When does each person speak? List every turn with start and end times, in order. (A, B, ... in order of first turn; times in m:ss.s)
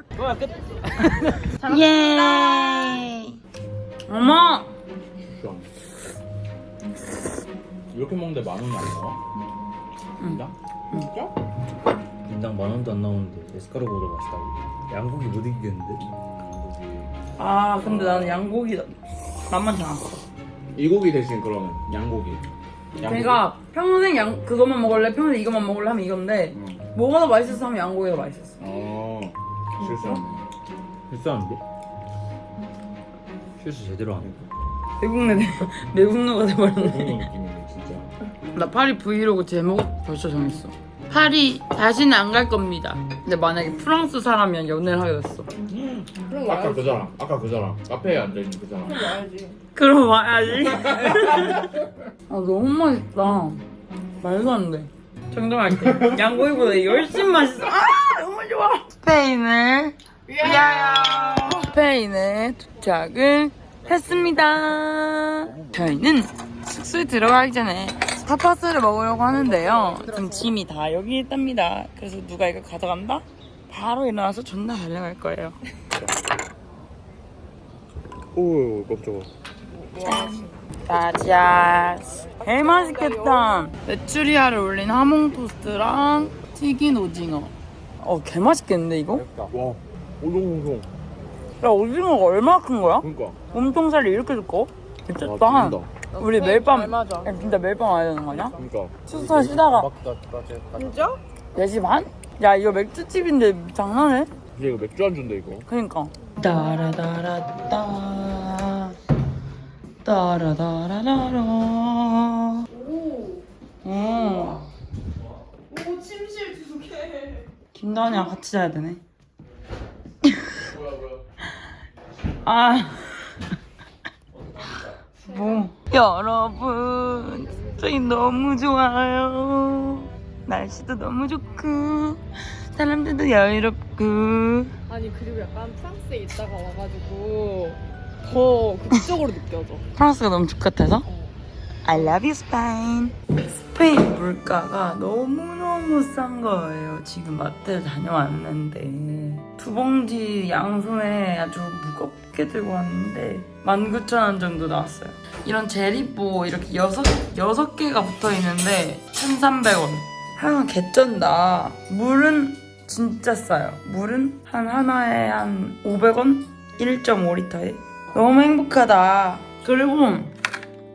0:00.2-0:01.5 A
0:01.4-0:03.4 B
0:04.1-0:04.7 B
0:05.3-0:05.7 C
0:07.9-0:09.2 C
0:10.2-0:11.1 B
0:10.2-0:11.3 C
0:12.2-0:16.0 A
0:16.0-0:17.1 C
0:17.4-0:20.1 B
0:17.8-0:18.4 C
0:20.7-0:22.4 C
0:23.0-0:23.4 C
0:23.0-0:28.6 B
0:26.6-0:26.8 C
0:28.6-0:30.5 C
0:29.8-0:30.2 B
0:31.1-0:31.6 A
0:33.6-0:34.4 A
0:34.2-0:34.5 C
0:35.0-0:37.3 B
0:36.8-0:38.1 C
0:38.5-0:45.5 B
0:45.7-0:49.2 C
0:46.2-0:47.0 D
0:48.8-0:49.6 D
0:49.8-0:51.8 B
0:52.3-0:53.6 B
0:54.2-1:15.6 B
1:03.9-1:04.3 C
1:05.4-1:06.0 C
1:09.3-1:10.5 D
1:18.3-1:19.3 C
1:19.7-1:20.6 D
1:20.0-1:29.2 B
1:22.4-1:23.7 D
1:29.1-1:29.5 A
1:29.5-1:30.9 C
1:31.6-1:39.9 B
1:33.0-1:33.4 C
1:35.2-1:35.9 C
1:36.1-1:37.4 D
1:38.6-1:39.4 C
1:39.1-1:41.1 A
1:40.8-1:41.2 D
1:41.6-1:44.3 B
1:44.5-1:45.6 C
1:45.6-1:49.0 B
1:50.0-1:52.7 B
1:52.7-1:53.4 D
1:53.8-1:54.7 B
1:54.2-1:54.6 D
1:55.7-1:57.5 D
1:57.7-1:59.0 B
2:00.2-2:00.7 B
2:00.6-2:01.2 C
2:02.4-2:03.5 B
2:04.6-2:14.8 B
2:14.9-2:19.8 D
2:20.0-2:21.1 B
2:21.1-2:21.4 D
2:21.8-2:50.3 B